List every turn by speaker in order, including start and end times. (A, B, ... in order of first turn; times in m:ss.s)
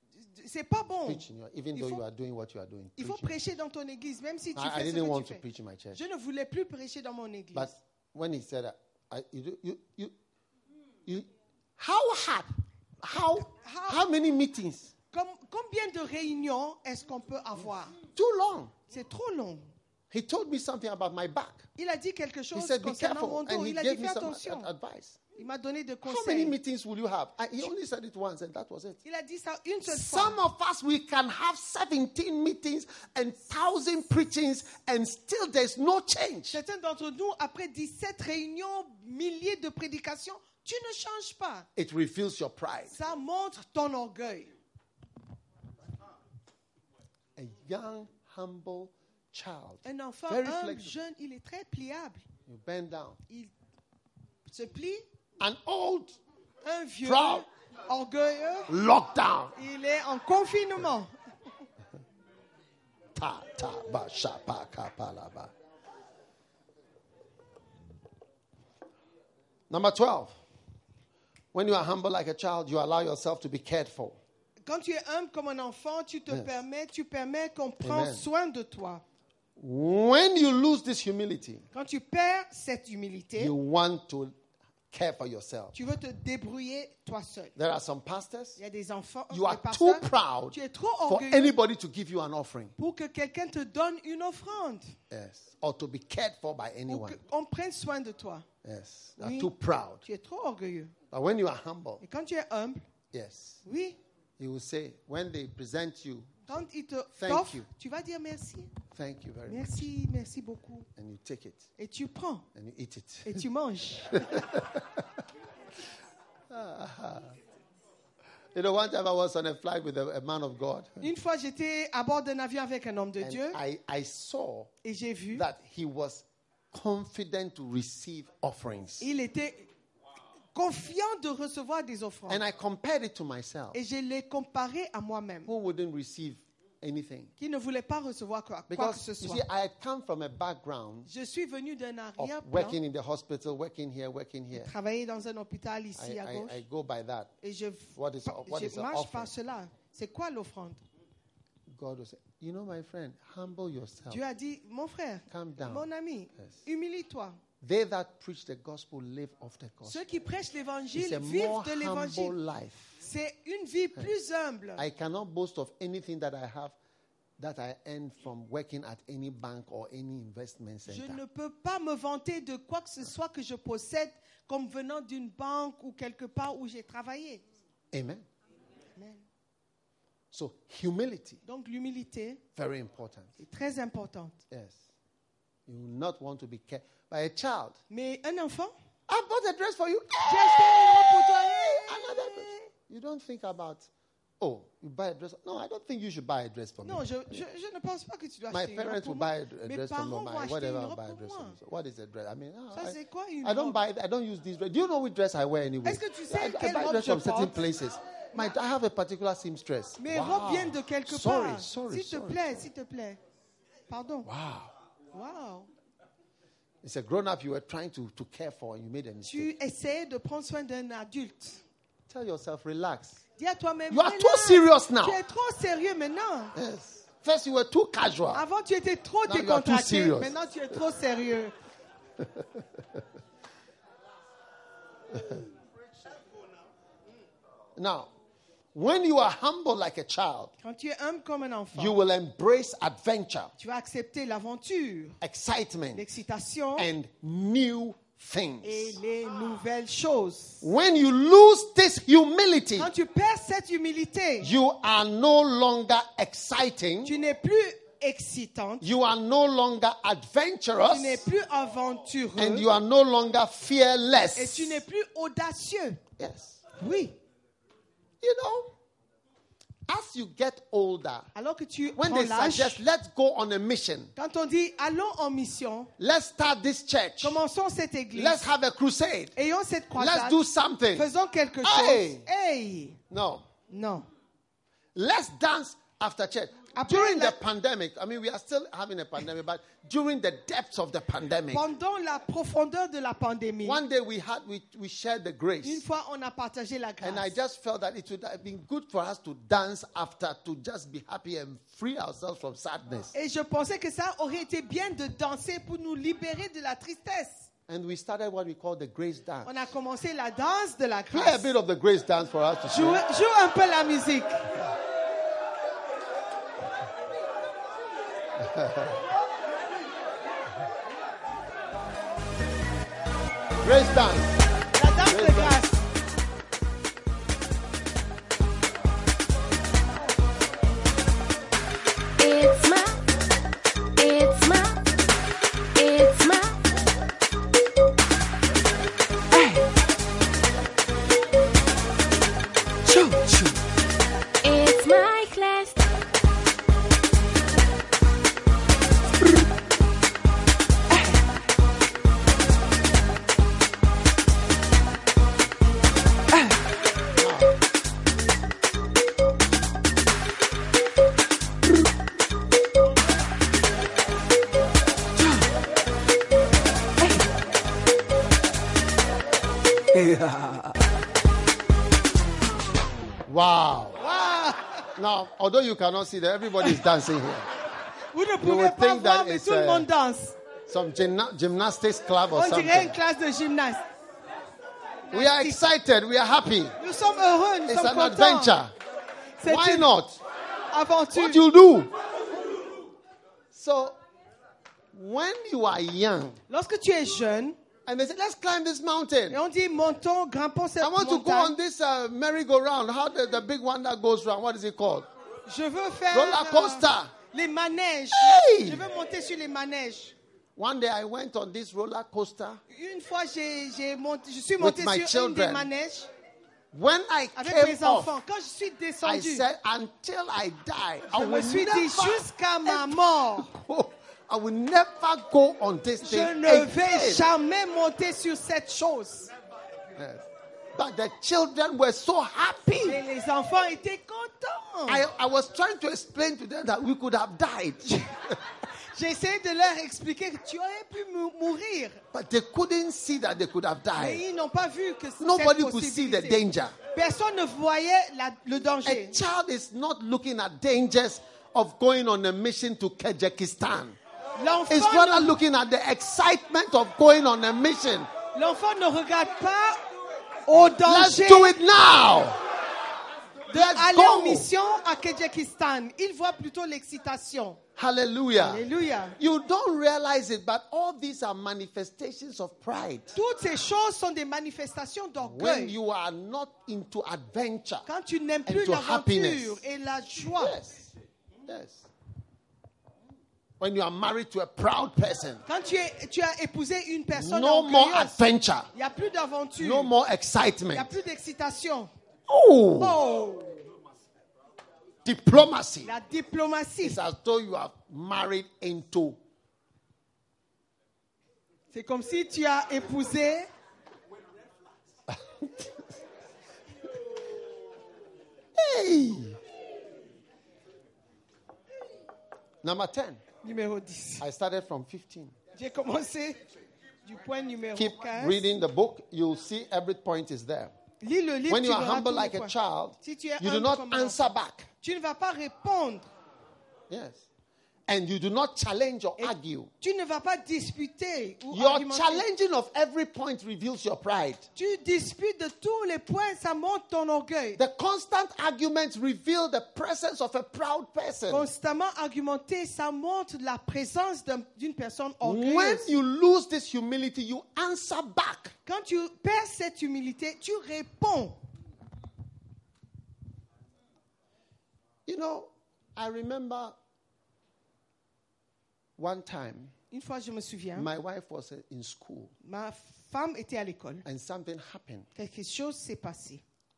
0:00.2-0:02.0 A
0:01.1-0:03.3 B
0:03.0-0:05.4 A
0:04.6-0:06.0 B
0:05.9-0:07.7 A
0:07.5-0:10.1 B
0:11.1-0:12.5 B
0:13.0-0:14.9 B
0:13.4-0:14.0 A
0:15.1-0:17.9 A
0:18.1-0:18.7 B
0:18.9-0:19.7 A
0:20.1-0:21.6 B
0:21.8-0:24.7 A
0:22.5-0:25.2 B
0:25.4-0:26.6 A
0:26.0-0:29.0 B
0:29.0-0:30.4 A
0:29.9-0:36.6 B
0:36.5-0:41.7 A
0:41.8-0:43.0 B
0:42.9-0:44.5 A
0:47.4-0:51.0 B
0:49.8-0:52.2 A
0:52.4-0:53.2 B
0:54.5-0:55.0 A
0:55.4-0:56.2 B
0:56.6-0:58.7 A
0:57.0-0:57.4 B
0:58.7-0:59.6 B
0:59.6-1:01.1 A
1:03.1-1:05.5 B
1:09.7-1:10.4 B
1:11.5-1:14.2 B
1:14.6-1:19.0 A
1:16.3-1:16.5 B
1:17.8-1:18.2 B
1:19.6-1:21.6 B
1:21.7-1:23.5 A
1:23.4-1:24.3 B
1:24.9-1:25.8 B
1:25.7-1:27.5 A
1:27.6-1:28.6 B
1:28.6-1:31.6 A
1:29.3-1:32.7 B
1:32.8-1:35.0 A
1:35.1-1:37.2 B
1:36.9-1:38.4 A
1:38.6-1:40.0 B
1:39.2-1:39.5 A
1:40.0-1:40.9 A
1:41.1-1:42.0 B
1:42.0-1:42.8 A
1:43.1-1:43.6 B
1:43.6-1:44.0 A
1:44.4-1:46.3 B
1:46.4-1:48.7 A
1:47.1-1:47.6 B
1:48.9-1:49.8 B
1:49.5-1:50.9 A
1:51.0-1:51.7 B
1:51.8-1:52.4 A
1:52.5-1:53.4 B
1:53.2-1:54.4 A
1:54.1-1:55.0 B
1:56.5-1:57.4 B
1:58.5-2:01.0 B
2:01.0-2:03.6 A
2:03.2-2:04.7 B
2:04.8-2:05.4 A
2:05.3-2:09.1 B
2:09.0-2:09.7 A
2:10.5-2:12.4 A
2:12.3-2:13.8 B
2:13.7-2:15.5 A
2:15.5-2:17.3 B
2:17.4-2:19.4 A
2:18.7-2:21.1 B
2:21.1-2:22.8 A
2:22.2-2:24.7 B
2:24.5-2:26.6 A
2:26.0-2:27.3 B
2:27.4-2:30.8 A
2:27.9-2:29.3 B
2:31.7-2:34.2 B
2:34.1-2:37.4 A
2:35.3-2:35.9 B
2:37.6-2:40.0 B
2:39.9-2:42.4 A
2:40.9-2:43.0 B
2:43.0-2:44.8 A
2:44.8-2:46.7 B
2:47.4-2:51.2 B
2:50.9-2:57.4 A
2:57.9-2:58.2 B
2:59.0-2:59.2 A
3:00.3-3:01.4 B
3:01.4-3:02.4 A
3:02.6-3:03.3 B
3:03.4-3:04.4 A
3:04.5-3:04.8 B
3:05.7-3:07.8 B
3:07.9-3:08.7 A
3:09.1-3:13.9 B
3:10.3-3:12.6 A
3:14.4-3:17.1 B
3:16.8-3:21.6 A
3:18.5-3:32.7 B
3:22.7-3:23.8 A
3:25.8-3:27.6 A
3:30.0-3:33.2 A
3:33.9-3:34.3 A
3:34.2-3:34.7 B
3:35.1-3:35.7 A
3:36.8-3:39.5 B
3:39.2-3:41.6 A
3:42.1-3:43.2 B
3:43.4-3:46.6 A
3:43.9-3:45.2 B
3:46.6-3:48.4 B
3:48.3-3:51.5 A
3:49.3-3:50.4 B
3:52.2-3:52.6 B
3:57.8-3:58.1 B
3:58.7-4:00.5 B
4:00.6-4:02.0 A
4:01.7-4:03.5 B
4:03.6-4:05.2 A
4:05.2-4:06.0 B
4:06.0-4:06.9 A
4:06.8-4:09.0 B
4:08.6-4:10.7 A
4:10.6-4:12.9 B
4:12.8-4:14.5 A
4:14.4-4:17.2 B
4:17.0-4:18.8 A
4:18.8-4:21.2 B
4:20.9-4:22.7 A
4:22.4-4:24.8 B
4:24.4-4:26.0 A
4:26.2-4:26.6 B
4:26.8-4:27.2 A
4:28.2-4:28.7 B
4:29.9-4:31.3 B
4:31.4-4:32.8 A
4:32.0-4:34.1 B
4:34.2-4:35.9 A
4:36.0-4:37.4 B
4:37.2-4:38.4 A
4:38.1-4:39.3 B
4:39.4-4:40.4 A
4:40.0-4:41.1 B
4:40.9-4:43.0 A
4:41.6-4:42.3 B
4:43.1-4:43.5 B
4:43.7-4:44.1 A
4:45.0-4:51.6 B
4:46.7-4:47.4 A
4:51.5-4:53.8 A
4:53.6-4:55.8 B
4:55.6-4:57.4 A
4:57.0-5:03.1 B
5:03.1-5:07.5 A
5:07.7-5:09.6 B
5:09.4-5:11.5 A
5:11.1-5:13.0 B
5:12.7-5:14.5 A
5:18.4-5:19.0 B
5:23.6-5:24.4 B
5:24.7-5:25.8 A
5:25.0-5:25.6 B
5:32.2-5:33.0 C
5:34.0-5:34.8 C
5:35.8-5:36.6 C
5:39.3-5:39.6 C
5:42.9-5:43.6 C
5:44.4-5:45.8 C
5:57.2-5:57.5 B
6:09.9-6:10.7 C
6:13.3-6:14.0 B
6:14.0-6:14.9 A
6:15.0-6:17.5 B
6:18.1-6:20.4 A
6:18.4-6:19.9 B
6:20.7-6:23.0 B
6:22.3-6:23.8 A
6:25.1-6:25.6 A
6:25.1-6:26.8 B
6:26.8-6:28.6 A
6:27.7-6:28.7 B
6:29.4-6:29.9 A
6:29.4-6:30.2 B
6:30.7-6:31.4 A
6:31.1-6:31.9 B
6:33.5-6:34.0 B
6:34.9-6:36.4 B
6:36.5-6:37.6 A
6:37.9-6:39.4 B
6:39.3-6:41.5 A
6:40.8-6:45.0 B
6:45.5-6:50.1 A
6:46.1-6:47.1 B
6:48.1-6:48.8 B
6:50.6-6:52.6 B
6:52.7-6:56.1 A
6:54.6-6:55.7 B
6:56.7-6:58.1 B
6:57.4-6:59.4 A
6:59.0-7:07.2 B
7:01.1-7:03.5 A
7:06.0-7:09.3 A
7:10.0-7:13.0 B
7:12.8-7:15.1 A
7:14.9-7:18.0 B
7:17.8-7:22.0 A
7:22.1-7:24.2 B
7:24.0-7:29.2 A
7:25.2-7:26.8 B
7:28.8-7:34.0 B
7:34.4-7:35.4 A
7:34.7-7:38.1 B
7:38.3-7:39.8 A
7:40.4-7:41.6 A
7:40.8-7:42.4 B
7:43.5-7:47.6 A
7:43.5-7:44.5 B
7:47.8-7:48.6 B
7:48.4-7:49.2 A
7:49.2-7:53.2 B
7:53.1-7:55.8 A
7:55.2-7:57.9 B
7:57.9-8:00.6 A
7:58.4-7:59.6 B
8:00.4-8:00.8 B
8:01.4-8:01.9 B
8:03.6-8:05.4 B
8:05.5-8:09.9 A
8:07.1-8:08.7 B
8:09.6-8:10.9 B
8:10.7-8:11.9 A
8:12.3-8:13.0 B
8:12.8-8:13.6 A
8:15.0-8:15.9 B
8:15.8-8:17.0 A
8:16.8-8:19.2 B
8:21.7-8:23.5 A
8:25.1-8:25.9 B
8:28.6-8:29.4 B
8:32.6-8:33.2 B
8:33.4-8:34.2 A
8:34.2-8:35.4 B
8:35.6-8:36.4 A
8:37.0-8:38.4 A
8:37.8-8:40.7 B
8:41.0-8:46.1 A
8:41.5-8:44.7 B
8:46.9-8:47.2 B
8:47.9-8:49.7 B
8:49.2-8:52.3 A
8:51.5-8:54.5 B
8:54.6-8:57.6 A
8:57.6-9:01.5 B
9:01.3-9:06.0 A
9:05.2-9:08.6 B
9:08.7-9:11.4 A
9:15.0-9:16.7 B
9:19.0-9:19.7 B
9:19.9-9:20.9 A
9:20.7-9:22.3 B
9:22.4-9:24.0 A
9:24.0-9:25.1 B
9:25.2-9:26.4 A